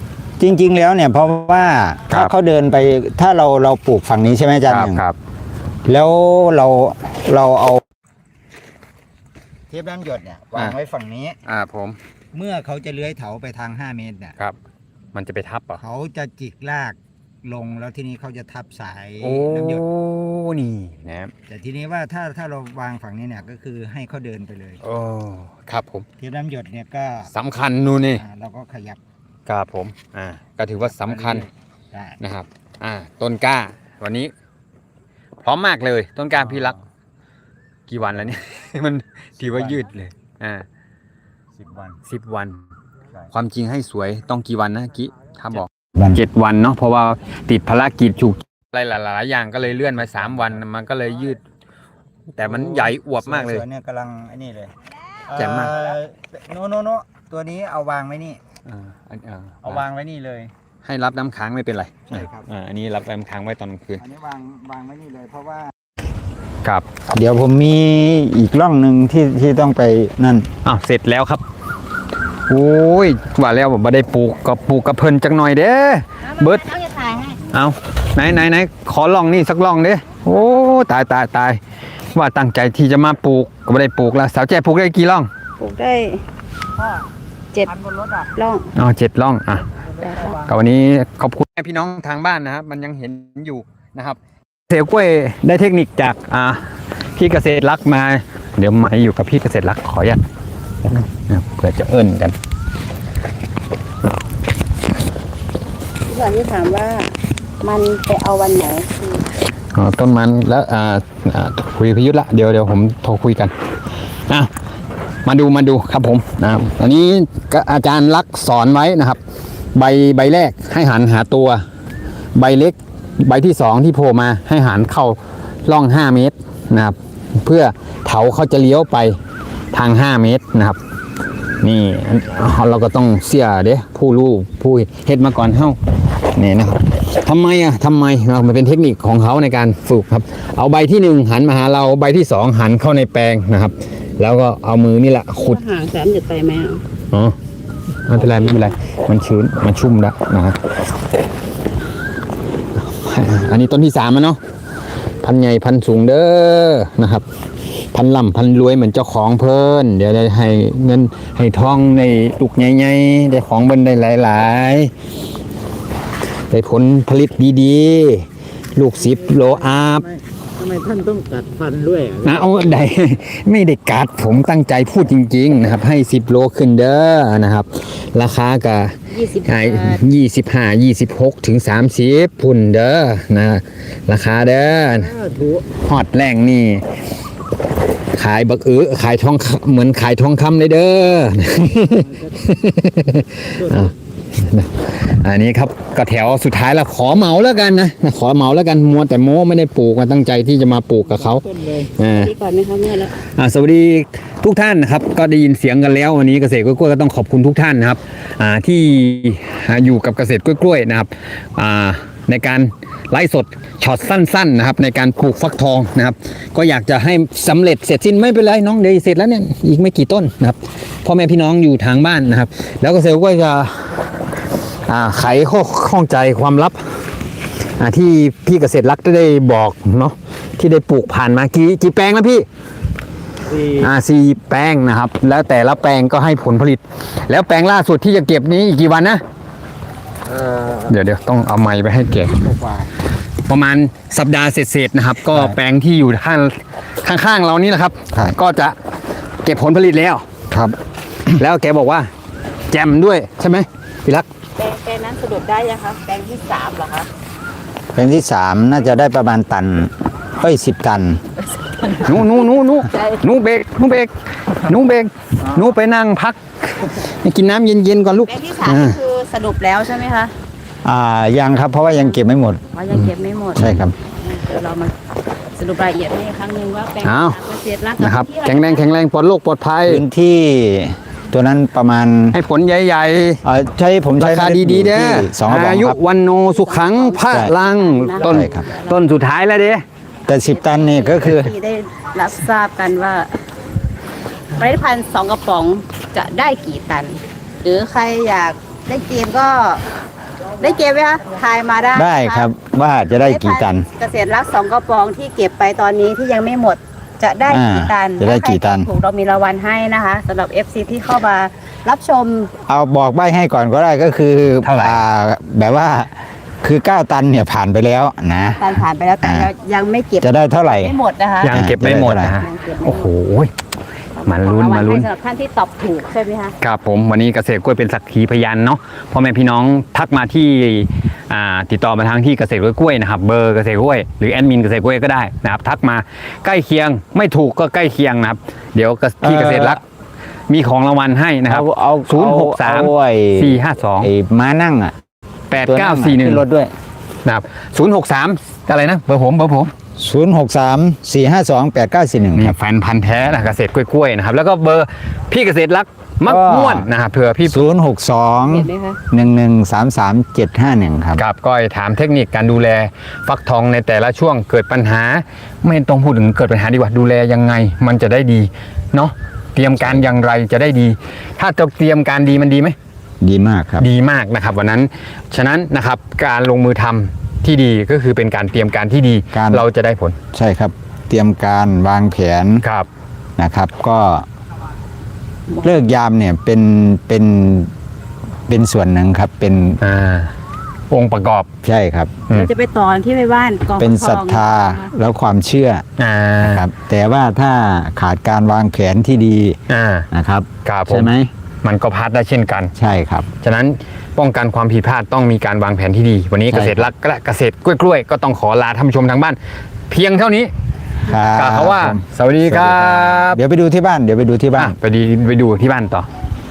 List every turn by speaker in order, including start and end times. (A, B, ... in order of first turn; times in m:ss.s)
0:00.4-0:05.0 A
0:04.7-0:05.2 B
0:05.9-0:07.8 A
0:09.7-0:11.4 A
0:11.5-0:12.0 B
0:12.3-0:14.4 A
0:15.1-0:15.8 B
0:15.8-0:19.9 A
0:19.2-0:21.3 B
0:21.5-0:24.8 A
0:24.8-0:26.1 B
0:26.2-0:27.3 A
0:27.3-0:28.2 B
0:28.1-0:29.0 A
0:29.5-0:31.5 B
0:30.9-0:32.2 A
0:32.2-0:34.3 B
0:35.4-0:36.8 B
0:36.4-0:36.7 A
0:37.9-0:40.6 B
0:39.4-0:39.9 A
0:41.6-0:42.0 A
0:42.0-0:42.6 B
0:43.3-0:51.4 B
0:46.0-0:46.2 A
0:50.1-0:50.6 A
0:52.4-0:53.6 B
0:52.4-0:54.7 A
0:55.3-0:58.4 A
0:55.3-0:55.8 B
0:58.7-0:59.8 B
0:59.6-1:00.5 A
1:00.8-1:04.0 B
1:02.1-1:02.5 A
1:04.0-1:05.7 A
1:07.1-1:10.5 A
1:10.6-1:11.4 B
1:12.5-1:21.6 B
1:16.8-1:17.3 C
1:22.1-1:25.3 B
1:25.6-1:26.2 C
1:27.5-1:28.7 C
1:28.8-1:36.6 B
1:30.0-1:30.4 C
1:37.2-1:40.2 B
1:40.9-1:42.4 B
1:46.1-1:49.2 C
1:49.7-1:53.5 B
1:55.2-1:59.2 B
1:59.8-2:01.6 B
2:02.4-2:09.2 B
2:09.7-2:10.8 B
2:11.6-2:25.6 B
2:25.4-2:26.8 C
2:28.1-2:30.6 B
2:32.8-2:34.4 B
2:35.2-2:37.2 B
2:37.9-2:44.9 B
2:46.5-2:50.0 B
2:49.0-2:52.5 A
2:52.2-3:06.8 B
2:59.2-3:00.0 C
3:08.1-3:22.4 B
3:22.2-3:23.2 C
3:23.2-3:44.0 B
3:44.9-3:47.0 B
3:47.8-3:52.5 B
3:53.5-3:53.9 A
3:53.6-3:59.2 B
4:00.3-4:00.9 A
4:00.8-4:02.4 B
4:02.3-4:02.9 A
4:03.4-4:08.8 B
4:09.4-4:10.2 B
4:10.5-4:10.8 A
4:11.4-4:12.1 B
4:12.7-4:14.3 B
4:14.6-4:17.1 C
4:18.0-4:21.2 A
4:21.7-4:22.1 C
4:22.0-4:29.0 B
4:28.3-4:30.3 C
4:30.8-4:32.6 A
4:32.8-4:33.6 C
4:33.5-4:34.0 A
4:34.2-4:34.9 C
4:35.6-4:38.8 C
4:37.0-4:40.0 B
4:39.8-4:42.4 A
4:42.3-4:43.4 B
4:43.4-4:46.0 A
4:44.2-4:49.8 B
4:46.6-4:48.9 C
4:47.3-4:47.5 A
4:48.2-4:48.7 A
4:50.3-4:51.5 A
4:50.7-4:53.4 C
4:54.5-4:59.8 C
5:00.6-5:02.5 C
5:01.9-5:03.9 A
5:03.2-5:12.5 C
5:07.5-5:08.9 A
5:12.7-5:16.1 A
5:14.6-5:15.0 B
5:16.6-5:19.5 A
5:18.6-5:21.6 C
5:20.2-5:22.4 A
5:21.4-5:23.5 B
5:22.4-5:23.1 C
5:24.2-5:25.1 B
5:24.3-5:26.6 C
5:26.6-5:39.8 B
5:39.2-5:39.8 A
5:40.5-5:44.1 B
5:41.5-5:44.9 A
5:45.5-5:46.4 B
5:45.6-5:46.7 A
5:47.2-5:49.7 B
5:50.0-5:52.5 A
5:52.4-5:57.6 B
5:56.2-5:56.9 A
5:57.5-6:01.2 A
5:58.4-5:59.0 C
6:01.2-6:12.8 B
6:13.2-6:13.9 A
6:13.8-6:20.2 B
6:19.3-6:19.6 A
6:20.3-6:22.6 A
6:22.6-6:22.9 B
6:23.4-6:24.2 A
6:25.6-6:27.7 A
6:28.5-6:29.8 A
6:29.8-6:30.3 B
6:30.9-6:31.5 B
6:31.6-6:32.2 A
6:32.3-6:34.9 C
6:33.8-6:35.8 A
6:36.0-6:36.6 B
6:36.4-6:39.6 A
6:39.7-6:40.1 B
6:40.1-6:41.3 A
6:40.6-6:41.1 B
6:41.6-6:42.7 B
6:42.8-6:43.3 A
6:43.4-6:49.4 B
6:46.5-6:46.9 A
6:49.9-6:50.5 B
6:51.0-6:54.8 A
6:51.3-6:53.4 B
6:54.6-6:56.1 B